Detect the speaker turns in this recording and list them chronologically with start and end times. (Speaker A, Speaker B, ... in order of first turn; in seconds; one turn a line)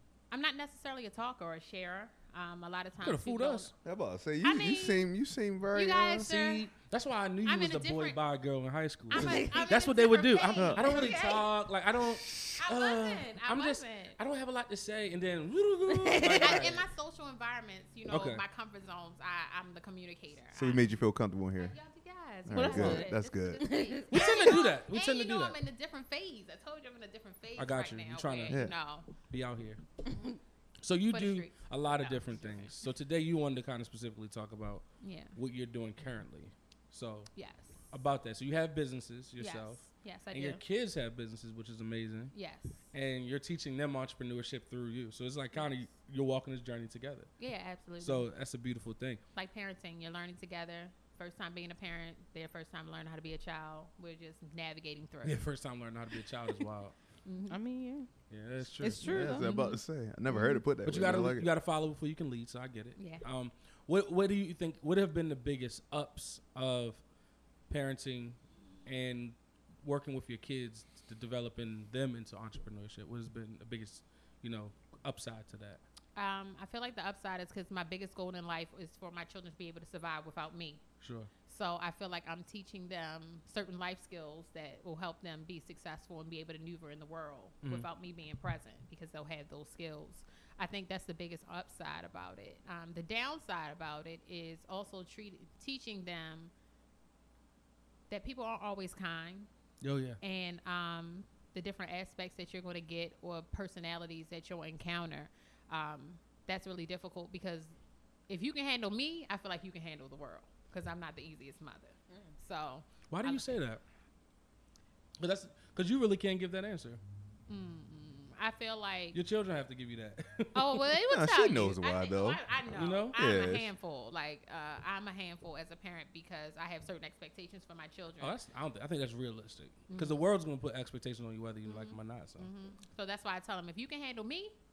Speaker A: 0.3-3.7
Speaker B: 3.0-3.7
Speaker C: 3.8-6.3
Speaker A: 4.4-5.1
Speaker A: 5.7-6.7
Speaker B: 6.2-16.9
Speaker A: 7.4-8.2
Speaker A: 9.1-11.5
Speaker D: 9.2-9.7
Speaker C: 10.6-11.1
Speaker A: 12.6-14.2
Speaker D: 15.9-16.6
Speaker A: 16.3-20.9
Speaker B: 18.1-18.4
Speaker C: 20.5-21.8
Speaker A: 21.6-29.1
Speaker C: 22.5-23.7
Speaker D: 22.5-24.2
Speaker B: 24.1-25.6
Speaker B: 27.6-28.7
Speaker C: 28.5-28.8
Speaker B: 29.3-29.8
Speaker D: 30.1-30.4
Speaker B: 30.8-37.3
Speaker A: 31.1-32.8
Speaker A: 35.0-35.4
Speaker A: 37.4-37.8
Speaker B: 37.9-42.4
Speaker A: 39.4-40.6
Speaker A: 42.3-42.8
Speaker B: 42.9-47.3
Speaker A: 47.4-48.3
Speaker B: 48.0-49.2
Speaker A: 49.4-55.4
Speaker B: 55.2-56.9
Speaker A: 57.2-57.6
Speaker D: 57.5-58.1
Speaker B: 58.3-59.1
Speaker D: 58.8-59.5
Speaker C: 59.0-61.5
Speaker A: 59.3-60.6
Speaker B: 60.9-67.0
Speaker A: 63.0-63.2
Speaker B: 67.7-75.8
Speaker A: 76.2-80.8
Speaker B: 81.0-81.3
Speaker A: 81.5-96.5
Speaker A: 98.1-99.5
Speaker B: 99.8-100.2
Speaker A: 100.2-107.8
Speaker A: 108.3-113.5
Speaker B: 113.1-113.8
Speaker B: 115.2-117.0
Speaker A: 117.5-119.2
Speaker B: 119.1-120.9
Speaker A: 120.5-128.4
Speaker C: 121.1-122.4
Speaker B: 122.7-123.2
Speaker C: 123.1-123.7
Speaker B: 128.2-132.5
Speaker A: 129.9-130.2
Speaker A: 131.7-134.5